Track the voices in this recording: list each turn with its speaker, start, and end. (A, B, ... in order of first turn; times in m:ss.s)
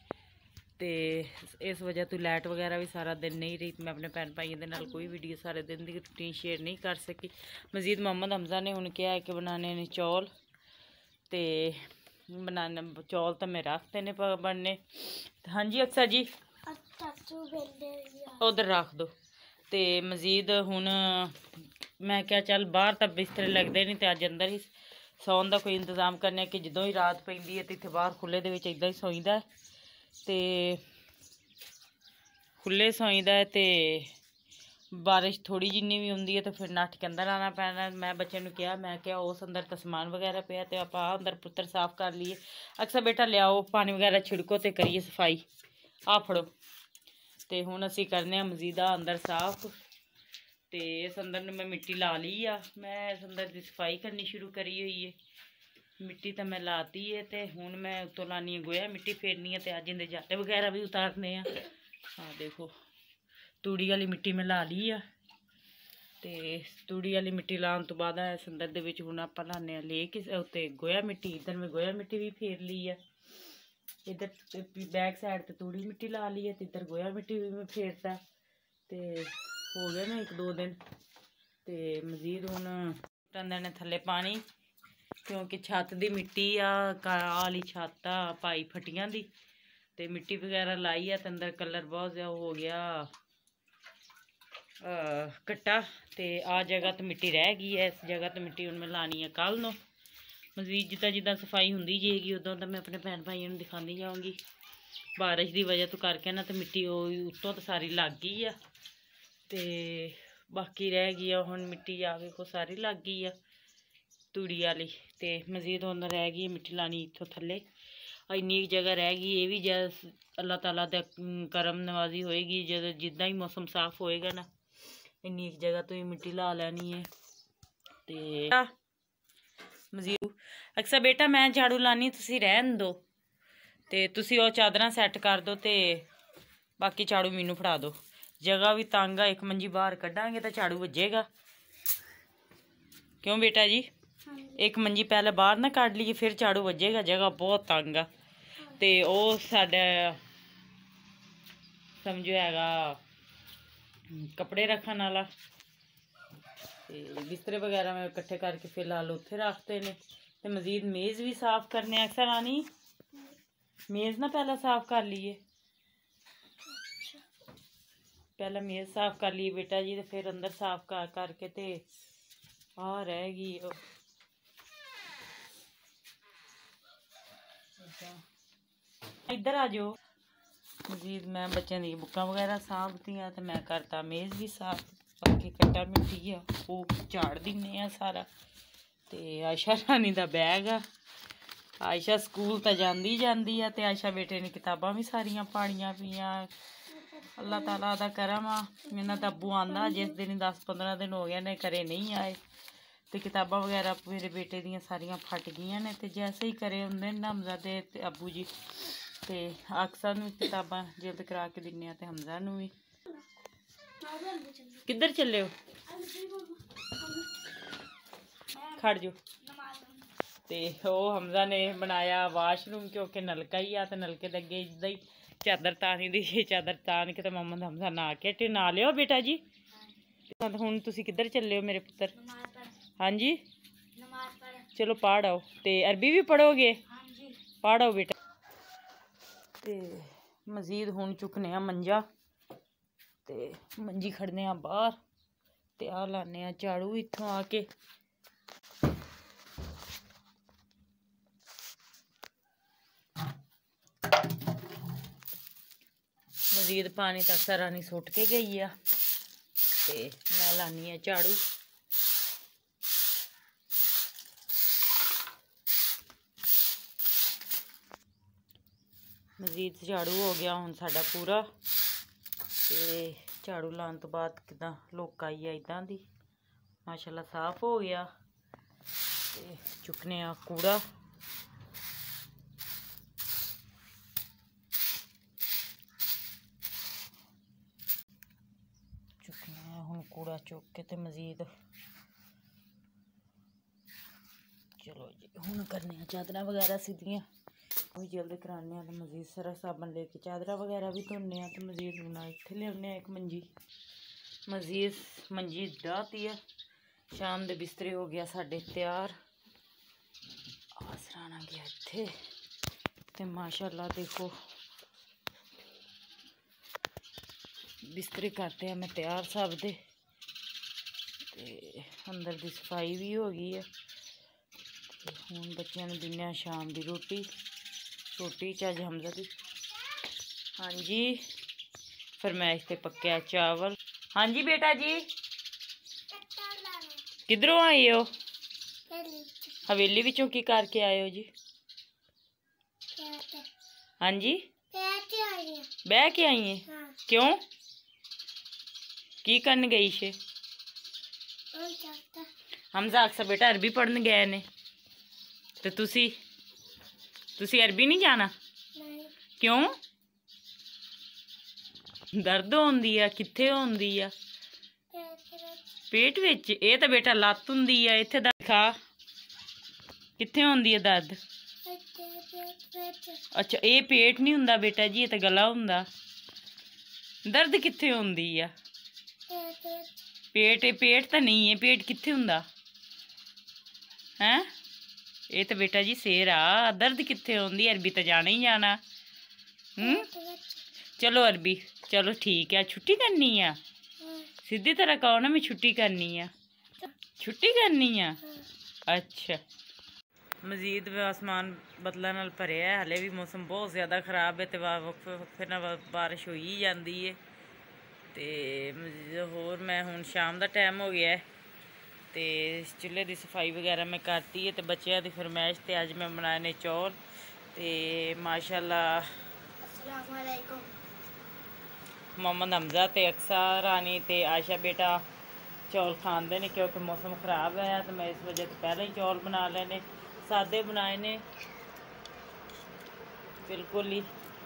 0:00.8-0:10.3 A
0:11.3-0:16.3 A
0:16.7-0:18.4 B
0:18.4-0:19.1 A
0:19.7-0:21.5 A
0:22.0-0:29.4 A
0:30.2-0:30.8 A
0:32.6-0:34.1 A
0:34.9-0:45.4 A
0:46.1-0:46.5 A
0:47.5-0:49.7 A
0:50.7-0:55.2 A
0:56.0-1:01.6 A
1:02.2-1:02.7 A
1:03.6-1:05.0 A
1:06.2-1:13.0 A
1:14.0-1:18.2 A
1:18.9-1:20.8 A
1:21.6-1:24.4 A
1:25.2-1:29.3 A
1:30.0-1:33.1 A
1:34.8-1:39.8 A
1:40.6-1:44.4 A
1:45.2-1:48.6 A
1:49.5-1:53.4 A
1:54.3-1:57.6 A
1:58.3-2:04.5 A
2:05.2-2:07.1 A
2:08.1-2:08.7 A
2:09.9-2:13.0 A
2:13.9-2:16.0 A
2:16.8-2:21.3 A
2:23.2-2:23.9 A
2:24.2-2:24.6 B
2:24.6-2:28.1 A
2:28.7-2:30.2 A
2:32.0-2:33.0 A
2:34.1-2:35.3 A
2:36.9-2:42.7 A
2:43.9-2:45.4 A
2:46.6-2:47.2 B
2:48.4-2:51.8 A
2:52.8-2:53.8 A
2:57.8-2:58.2 A
2:59.3-3:00.0 A
3:00.8-3:08.3 A
3:09.1-3:10.8 A
3:11.8-3:16.5 A
3:16.9-3:17.8 B
3:17.3-3:22.4 A
3:19.0-3:20.1 B
3:23.1-3:32.7 A
3:34.0-3:34.8 B
3:34.8-3:35.5 A
3:35.9-3:37.3 B
3:38.6-3:39.2 A
3:39.5-3:40.0 B
3:40.5-3:49.4 A
3:50.3-3:52.3 A
3:52.3-3:52.7 B
3:53.0-3:53.4 A
3:54.0-3:54.6 B
3:54.6-3:56.8 A
3:57.6-3:58.2 A
3:59.6-4:02.0 A
4:03.2-4:05.0 A
4:05.8-4:07.7 A
4:16.5-4:18.7 A
4:19.8-4:21.4 A
4:29.4-4:31.4 A
4:32.7-4:36.0 A
4:36.8-4:38.1 A
4:39.3-4:40.8 A
4:49.2-4:51.5 A
4:54.8-4:57.2 A
4:57.9-5:03.5 A
5:04.5-5:06.4 A
5:07.1-5:09.2 A
5:10.8-5:12.1 A
5:13.1-5:14.4 A
5:17.8-5:19.8 A
5:21.3-5:23.7 A
5:25.0-5:27.3 A
5:28.1-5:29.3 A
5:30.6-5:31.2 A
5:32.2-5:35.0 A
5:36.1-5:37.0 B
5:37.3-5:38.1 A
5:38.9-5:39.6 B
5:39.6-5:41.3 A
5:42.9-5:43.5 B
5:44.0-5:44.4 A
5:44.7-5:45.7 B
5:45.8-5:47.4 A
5:46.7-5:47.0 B
5:49.2-5:50.2 A
5:51.5-5:52.3 B
5:52.7-5:54.4 A
5:55.6-5:56.2 A
5:57.4-5:58.3 A
5:58.7-5:59.1 B
5:59.4-5:59.7 A
6:02.1-6:04.1 A
6:04.9-6:05.7 B
6:05.9-6:08.8 A
6:10.2-6:11.2 A
6:11.6-6:13.2 B
6:13.3-6:15.9 A
6:17.2-6:18.5 A
6:19.3-6:20.0 B
6:20.3-6:22.4 A
6:24.2-6:24.5 A
6:25.3-6:28.8 A
6:29.8-6:30.1 A
6:29.8-6:30.6 B
6:31.0-6:33.6 A
6:34.0-6:34.3 B
6:34.4-6:36.3 A
6:37.2-6:38.2 A
6:38.9-6:39.4 A
6:40.4-6:47.2 A
6:48.1-6:51.2 A
6:52.1-6:57.0 A
6:57.5-6:59.1 A
6:59.6-7:00.7 B
7:02.2-7:05.0 A
7:05.7-7:11.2 A
7:13.4-7:14.1 A